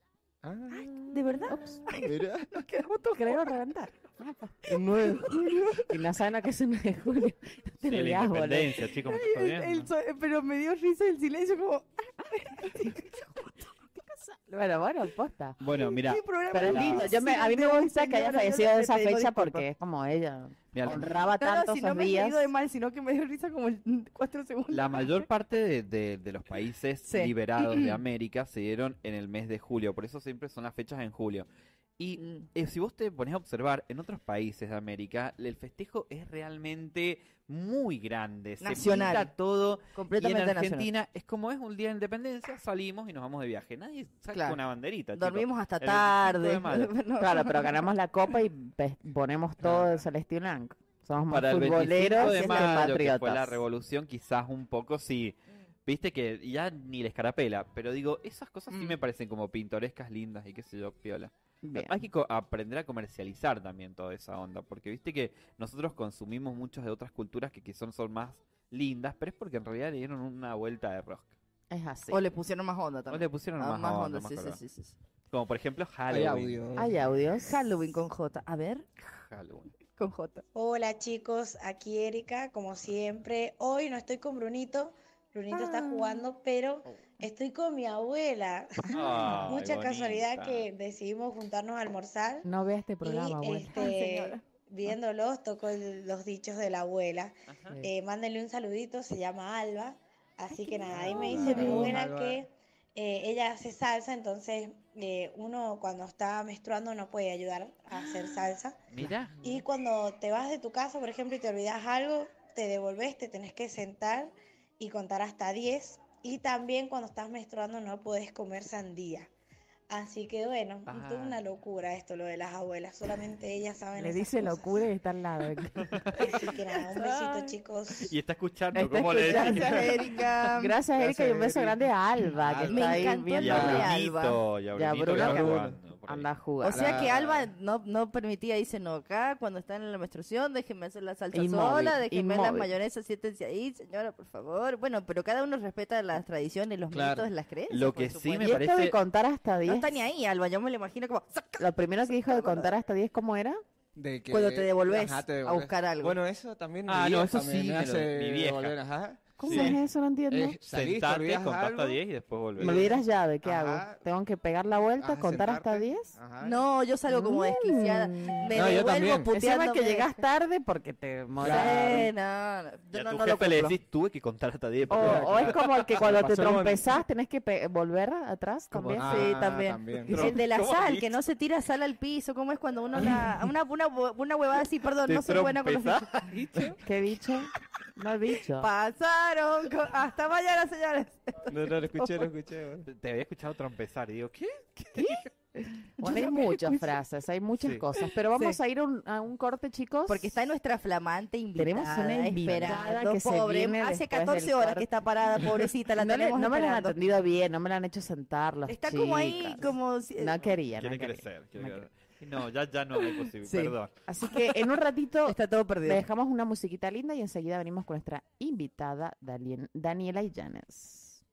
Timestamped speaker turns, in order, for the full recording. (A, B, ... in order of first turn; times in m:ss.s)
0:00.4-0:01.2 A
0:00.7-0:03.6 B
0:01.5-0:01.8 C
0:01.9-0:02.6 A
0:03.1-0:04.8 C
0:04.7-0:05.5 A
0:05.0-0:05.9 B
0:05.9-0:08.9 C
0:07.8-0:09.9 D
0:09.1-0:13.7 B
0:14.1-0:15.6 C
0:15.6-0:17.1 D
0:15.7-0:19.7 B
0:16.5-0:22.5 C
0:20.7-0:21.1 D
0:21.4-0:25.2 B
0:24.7-0:31.5 D
0:27.1-0:28.0 B
0:32.0-0:47.0 D
0:32.2-0:32.4 B
0:38.6-0:39.3 B
0:40.0-0:40.9 B
0:44.3-0:44.6 B
0:45.2-0:47.8 B
0:47.2-0:53.6 C
0:49.6-0:49.9 D
0:51.3-1:11.4 D
0:52.2-0:53.0 B
0:58.7-0:59.0 B
1:01.6-1:02.0 C
1:11.7-1:12.2 C
1:12.1-1:15.0 B
1:13.1-1:14.6 D
1:15.3-1:16.6 D
1:16.1-1:17.0 A
1:16.8-1:17.6 C
1:17.4-1:18.9 B
1:19.0-1:19.8 D
1:20.0-1:20.4 B
1:20.6-1:32.5 E
1:25.6-1:25.9 B
1:28.9-1:29.4 C
1:28.9-1:30.7 D
1:32.4-1:33.9 C
1:33.1-1:48.8 E
1:33.7-1:34.4 B
1:40.5-1:42.0 B
1:41.0-1:42.3 A
1:41.1-1:41.9 C
1:48.9-1:49.4 D
1:49.4-1:59.3 E
1:59.9-2:04.8 E
2:00.9-2:01.4 D
2:04.0-2:06.3 C
2:05.8-2:06.2 D
2:06.2-2:08.1 E
2:08.0-2:10.2 D
2:08.8-2:10.7 B
2:09.0-2:09.9 C
2:10.6-2:13.9 C
2:10.9-2:11.8 A
2:12.4-2:13.9 A
2:12.6-2:14.4 B
2:13.4-2:16.3 D
2:14.8-2:17.1 C
2:15.2-2:15.6 A
2:16.6-2:28.5 B
2:16.7-2:17.5 A
2:21.3-2:22.7 C
2:27.7-2:29.0 D
2:28.4-2:30.0 C
2:29.6-2:32.7 B
2:31.6-2:33.6 C
2:34.0-2:39.8 A
2:34.3-2:36.2 B
2:36.9-2:38.8 D
2:39.4-2:40.6 C
2:39.4-2:39.8 D
2:39.5-2:39.8 B
2:40.3-2:42.0 A
2:40.6-2:43.0 D
2:42.6-2:44.0 A
2:42.6-2:46.2 C
2:45.0-2:46.6 A
2:46.4-2:50.2 B
2:47.1-2:52.1 C
2:48.5-2:49.3 A
2:51.4-2:52.1 A
2:51.5-2:53.7 B
2:52.9-2:55.9 D
2:54.9-2:57.0 A
2:54.9-2:59.3 C
2:58.7-3:00.2 A
2:59.0-3:06.7 B
3:00.1-3:01.1 D
3:05.1-3:06.8 D
3:06.8-3:08.7 C
3:08.6-3:12.3 B
3:11.5-3:12.9 A
3:12.9-3:15.2 D
3:15.0-3:20.4 C
3:16.0-3:16.9 B
3:17.6-3:17.9 D
3:20.1-3:27.0 B
3:21.6-3:24.9 C
3:25.4-3:31.9 C
3:28.7-3:30.5 B
3:30.8-3:33.9 D
3:33.1-3:33.8 B
3:34.1-3:41.2 C
3:35.2-3:36.0 B